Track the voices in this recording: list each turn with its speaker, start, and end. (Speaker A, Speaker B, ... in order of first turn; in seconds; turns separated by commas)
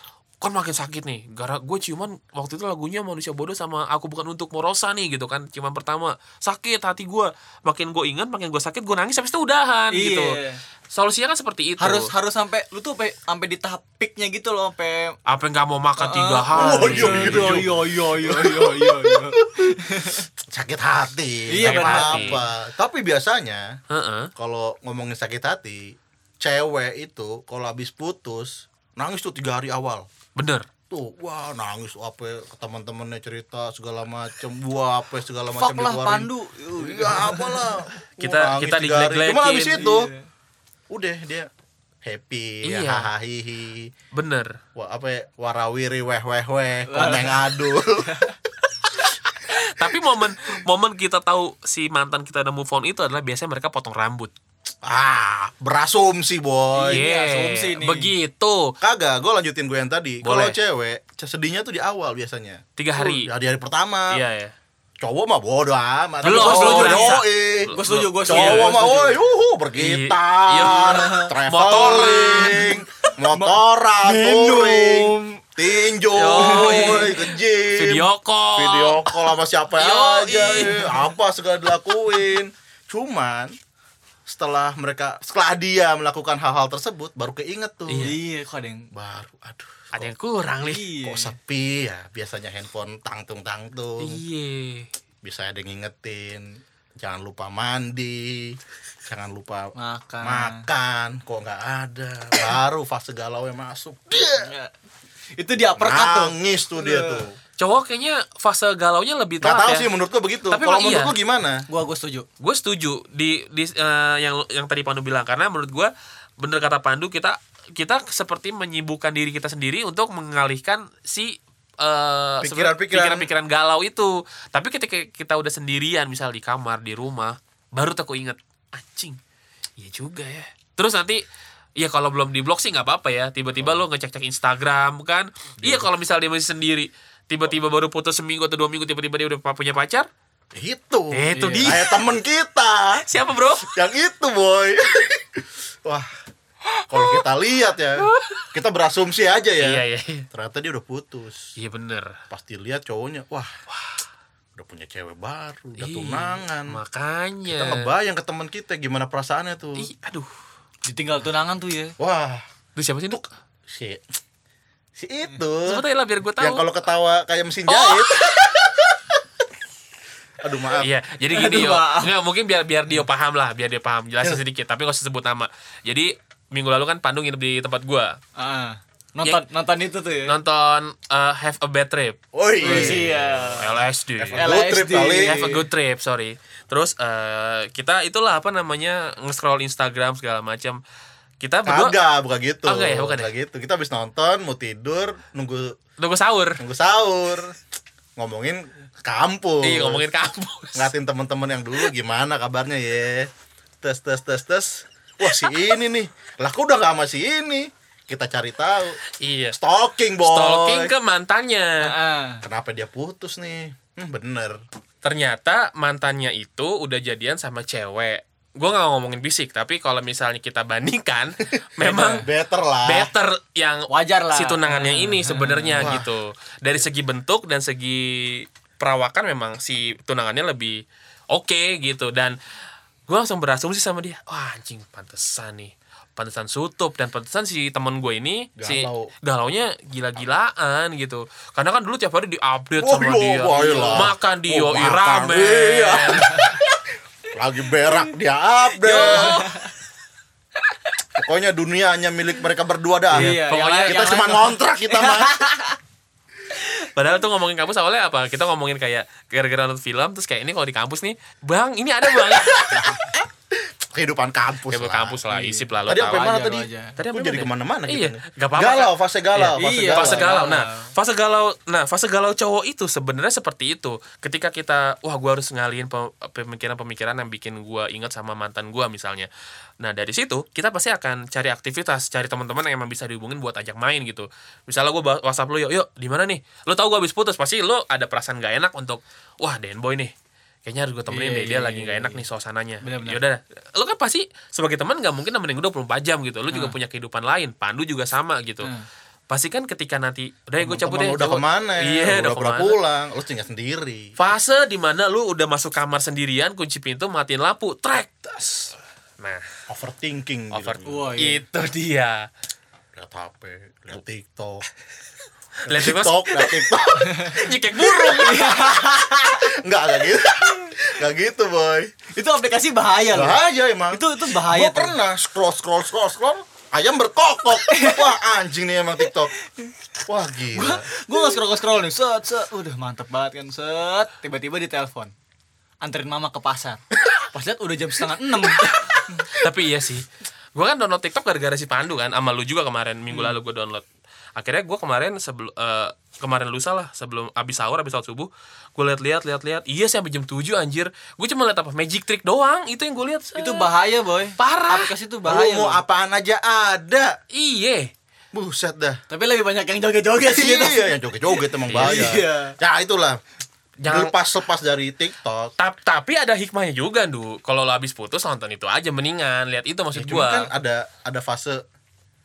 Speaker A: 0.4-10.4, Speaker B: 9.9-10.6, Speaker A: 10.9-12.1, Speaker B: 11.8-15.1, Speaker A: 15.2-17.7, Speaker B: 16.0-20.2, Speaker C: 16.6-19.8, Speaker C: 20.5-23.8, Speaker B: 21.5-22.4, Speaker A: 21.6-22.4, Speaker A: 23.9-24.3, Speaker C: 24.4-30.1, Speaker A: 30.4-30.7, Speaker C: 30.9-40.1, Speaker B: 35.5-37.7, Speaker A: 38.2-39.9, Speaker B: 39.7-40.2, Speaker C: 40.9-41.5, Speaker C: 42.0-43.9, Speaker A: 42.6-43.1, Speaker A: 44.1-44.6, Speaker C: 44.8-48.1, Speaker B: 46.9-48.4, Speaker A: 49.1-54.3, Speaker C: 54.8-57.0, Speaker B: 56.7-58.1, Speaker A: 56.9-58.8, Speaker C: 58.8-64.2, Speaker A: 60.2-60.6, Speaker A: 62.8-63.3, Speaker A: 64.1-64.5, Speaker C: 65.0-67.7, Speaker B: 66.2-69.2, Speaker A: 66.2-68.7, Speaker C: 68.3-83.5, Speaker A: 69.8-72.7, Speaker B: 70.8-71.3, Speaker B: 71.9-75.4, Speaker A: 76.1-77.2, Speaker B: 76.3-77.2, Speaker A: 77.8-79.1, Speaker A: 79.8-80.9, Speaker B: 80.5-80.9, Speaker C: 84.3-88.1, Speaker A: 87.9-88.2, Speaker B: 88.0-88.9, Speaker C: 88.9-90.1, Speaker A: 89.9-90.9, Speaker B: 90.6-91.3, Speaker C: 91.0-94.2, Speaker A: 94.0-94.9, Speaker C: 95.2-104.5, Speaker B: 99.8-100.7, Speaker B: 104.4-104.7, Speaker B: 105.4-107.2, Speaker C: 105.8-107.4, Speaker A: 107.6-109.9, Speaker C: 109.4-111.7, Speaker A: 110.5-111.1, Speaker B: 111.7-112.3, Speaker A: 112.4-129.2, Speaker C: 122.4-123.3, Speaker A: 129.8-131.2, Speaker A: 131.8-140.1, Speaker C: 135.6-135.9, Speaker C: 140.6-143.1, Speaker A: 141.1-142.0, Speaker B: 141.3-141.8, Speaker A: 143.0-143.7, Speaker C: 143.6-146.1, Speaker C: 146.9-151.5, Speaker A: 148.0-148.5, Speaker A: 149.6-150.2, Speaker A: 151.6-152.2, Speaker C: 152.3-153.5, Speaker A: 153.7-154.0, Speaker C: 154.6-156.8, Speaker A: 155.8-157.9, Speaker C: 157.5-159.9, Speaker A: 159.8-160.3, Speaker B: 160.9-161.9, Speaker C: 162.0-162.4, Speaker A: 162.8-163.3, Speaker C: 163.1-164.0, Speaker C: 165.0-165.8, Speaker A: 165.6-166.6, Speaker C: 166.4-168.3, Speaker A: 167.7-168.9, Speaker C: 170.4-170.9, Speaker A: 170.8-178.2, Speaker B: 171.3-172.1, Speaker B: 178.4-180.4, Speaker A: 180.2-184.5, Speaker C: 182.3-183.5, Speaker B: 182.6-183.8, Speaker C: 184.2-185.4, Speaker B: 184.4-185.6, Speaker A: 185.1-190.8, Speaker A: 191.4-192.0, Speaker C: 191.6-195.8, Speaker A: 192.7-193.3, Speaker A: 196.0-196.6, Speaker C: 196.6-197.6, Speaker C: 198.2-200.0, Speaker A: 199.6-200.9, Speaker C: 200.8-203.3, Speaker C: 203.8-209.0, Speaker A: 209.2-209.6, Speaker C: 209.5-210.9, Speaker A: 210.2-211.9, Speaker B: 211.8-212.4, Speaker C: 212.4-214.6, Speaker A: 215.0-222.3, Speaker B: 221.8-222.2, Speaker C: 221.8-223.1, Speaker A: 222.8-232.4, Speaker B: 223.9-225.9, Speaker C: 225.8-226.1, Speaker A: 233.1-246.4, Speaker C: 238.6-239.1, Speaker C: 242.8-246.6, Speaker B: 243.5-244.1, Speaker C: 247.3-249.5, Speaker A: 248.8-249.6, Speaker B: 248.9-249.7, Speaker C: 251.2-255.4, Speaker B: 253.1-255.8, Speaker A: 253.1-254.1, Speaker A: 256.5-263.1, Speaker C: 262.7-270.3, Speaker A: 264.7-266.4, Speaker B: 266.1-267.0, Speaker A: 267.0-279.3, Speaker B: 269.6-270.9, Speaker A: 279.8-290.1, Speaker A: 290.6-298.7, Speaker B: 291.1-292.2, Speaker B: 292.8-293.2, Speaker B: 296.5-296.8, Speaker A: 299.3-302.8, Speaker C: 300.6-304.1, Speaker A: 304.2-309.4, Speaker C: 309.7-311.1, Speaker A: 310.5-312.3, Speaker B: 310.9-311.4, Speaker C: 312.9-314.6, Speaker A: 315.6-318.6, Speaker C: 315.7-321.9, Speaker B: 318.1-319.5, Speaker B: 322.1-324.9, Speaker C: 323.1-329.3, Speaker B: 327.7-328.1, Speaker C: 330.1-330.9, Speaker B: 330.5-335.1, Speaker B: 335.8-339.3, Speaker A: 339.3-343.9, Speaker B: 343.1-343.4, Speaker A: 344.4-353.7, Speaker B: 353.4-355.8, Speaker A: 354.4-354.9, Speaker C: 355.3-357.2, Speaker A: 357.3-357.9, Speaker C: 358.3-359.0, Speaker B: 359.1-362.5, Speaker C: 360.3-363.2, Speaker A: 361.7-362.1, Speaker A: 363.8-364.1, Speaker C: 363.8-365.5, Speaker A: 365.6-370.5, Speaker C: 369.9-371.6